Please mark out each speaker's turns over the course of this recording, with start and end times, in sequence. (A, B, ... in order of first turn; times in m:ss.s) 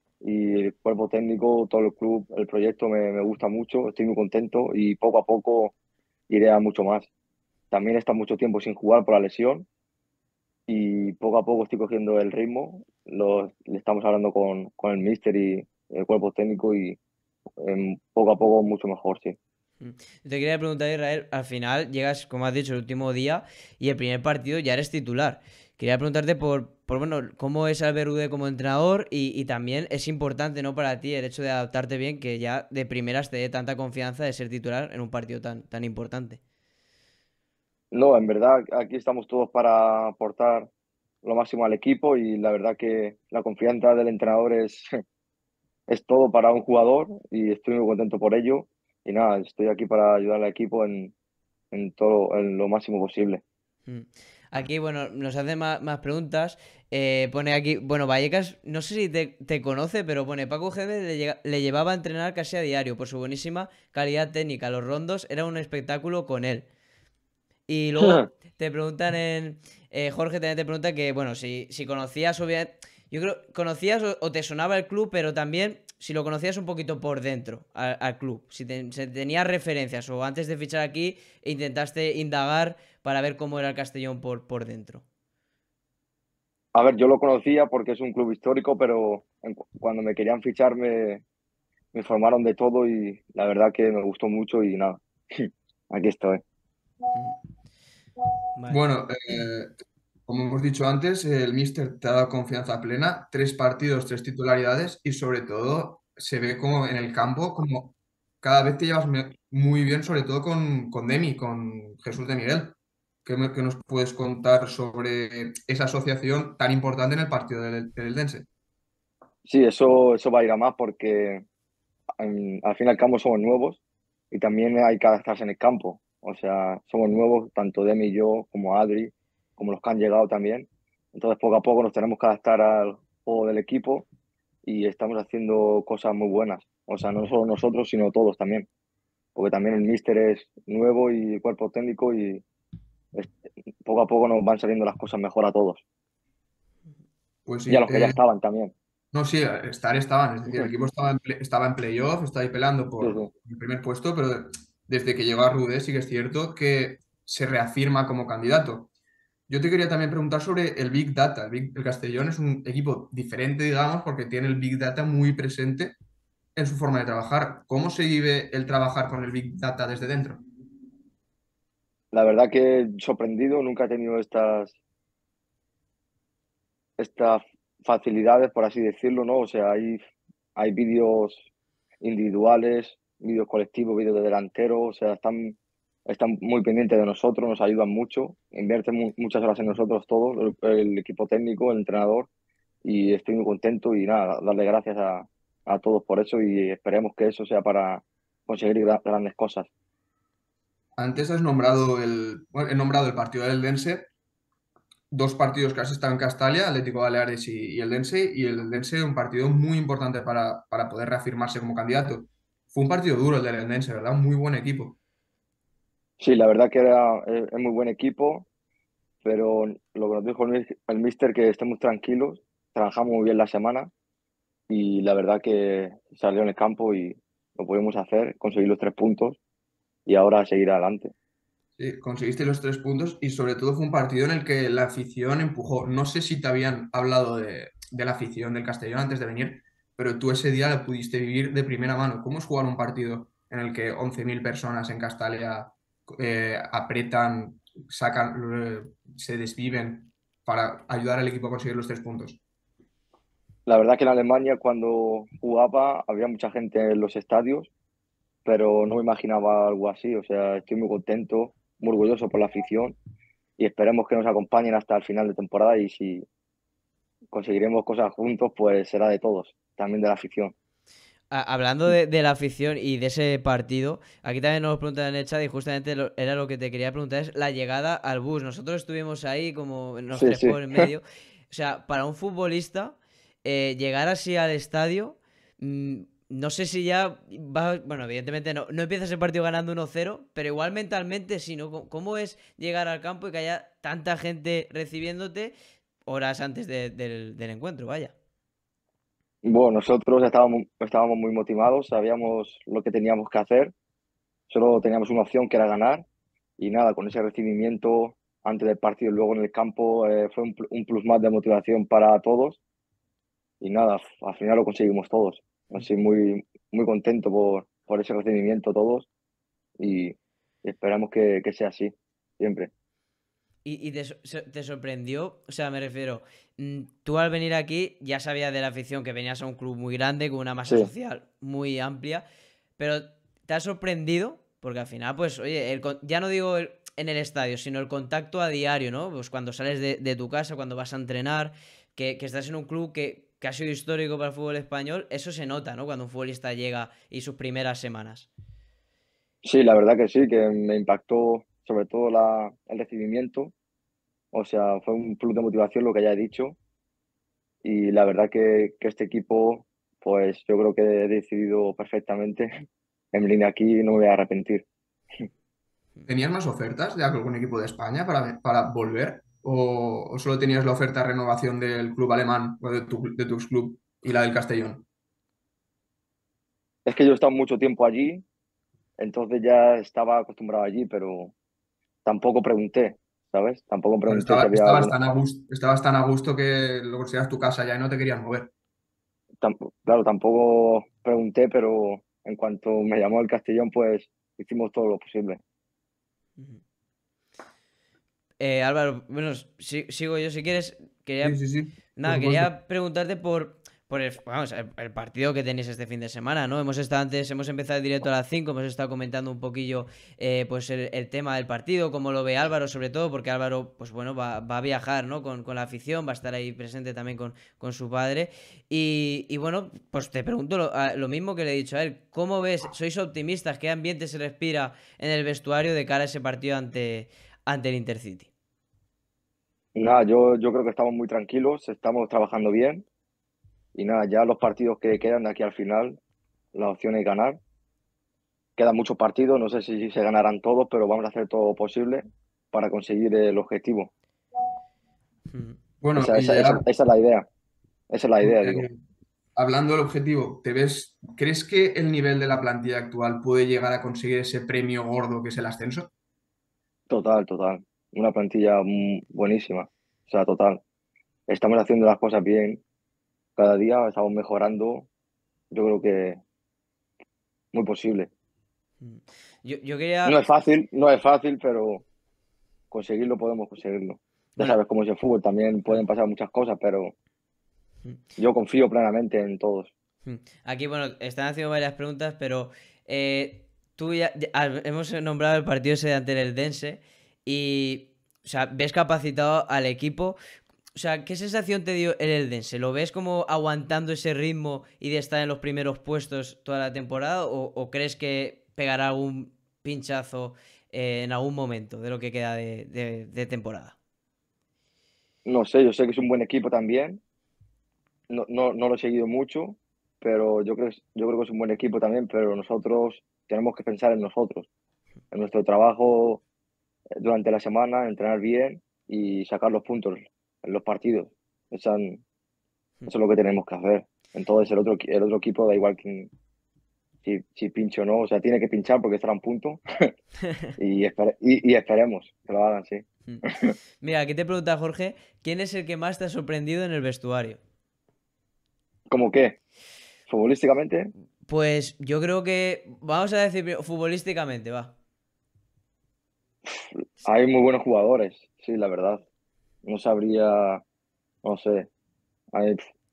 0:00.2-0:05.7 A
0:06.3-0:07.1 A
0:07.7-0:09.6 A
0:10.7-0:17.0 A
0:17.6-0:19.4 A
0:19.8-0:36.4 B
0:37.9-0:40.7 A
0:41.2-0:44.9 A
0:45.9-0:51.1 A
0:51.7-0:53.4 A
0:53.9-1:06.6 B
1:07.7-1:25.0 B
1:08.0-1:08.3 A
1:26.7-1:31.2 A
1:31.9-1:36.4 A
1:38.6-1:38.8 B
1:38.7-1:39.7 C
1:40.3-1:58.5 C
1:59.4-2:01.4 A
2:02.2-2:14.0 A
2:14.6-2:18.7 A
2:19.3-2:22.4 A
2:23.1-2:25.8 A
2:27.4-2:28.2 C
2:27.7-2:28.7 A
2:29.1-2:38.9 C
2:33.0-2:33.3 A
2:39.5-2:46.0 C
2:46.6-2:50.4 C
2:52.1-2:54.8 A
2:57.0-3:00.0 A
3:00.6-3:01.4 A
3:02.0-3:12.3 A
3:12.8-3:19.7 A
3:21.0-3:24.1 C
3:25.1-3:35.0 C
3:36.2-3:38.4 A
3:39.2-3:43.9 A
3:44.7-3:49.4 A
3:50.0-3:51.1 A
3:51.8-4:12.4 C
4:13.6-4:17.7 A
4:18.4-4:22.9 A
4:23.6-4:26.2 A
4:27.3-4:30.5 A
4:31.3-4:55.5 B
4:40.1-4:40.9 A
4:56.0-4:58.1 B
4:59.4-5:03.7 A
5:04.5-5:06.0 A
5:06.6-5:12.6 A
5:13.6-5:19.1 A
5:19.8-5:22.7 A
5:23.6-5:32.2 B
5:32.8-5:48.3 B
5:49.4-5:53.5 A
5:54.3-5:56.6 A
5:57.6-6:02.5 A
6:03.1-6:04.6 A
6:06.1-6:14.8 C
6:16.8-6:18.2 A
6:19.0-6:21.3 A
6:22.0-6:25.0 A
6:24.1-6:28.5 C
6:29.4-6:35.4 A
6:38.4-6:41.4 B
6:41.2-6:42.5 C
6:42.0-7:08.3 B
7:09.7-7:12.8 A
7:13.7-7:16.0 A
7:16.5-7:17.4 A
7:18.6-7:23.9 A
7:25.3-7:25.6 B
7:25.8-7:26.6 C
7:25.9-7:27.2 A
7:27.9-7:28.7 A
7:28.2-7:28.8 C
7:29.4-7:35.9 C
7:36.9-7:40.6 A
7:41.3-7:42.6 A
7:43.4-7:44.9 A
7:45.5-7:46.2 A
7:47.5-7:48.1 A
7:48.8-7:50.2 B
7:50.0-7:51.8 A
7:52.7-7:56.9 A
7:58.2-7:59.7 A
8:00.0-8:10.2 B
8:10.7-8:23.7 B
8:25.2-8:27.0 A
8:28.1-8:34.5 A
8:35.1-8:36.2 A
8:37.0-8:42.0 A
8:42.9-8:46.1 A
8:47.0-8:49.9 A
8:50.6-8:53.5 A
8:53.8-8:57.4 B
8:58.9-8:59.4 A
9:00.1-9:00.9 A
9:01.2-9:04.7 B
9:06.4-9:09.0 A
9:09.6-9:10.6 A
9:11.2-9:11.7 A
9:12.3-9:12.6 A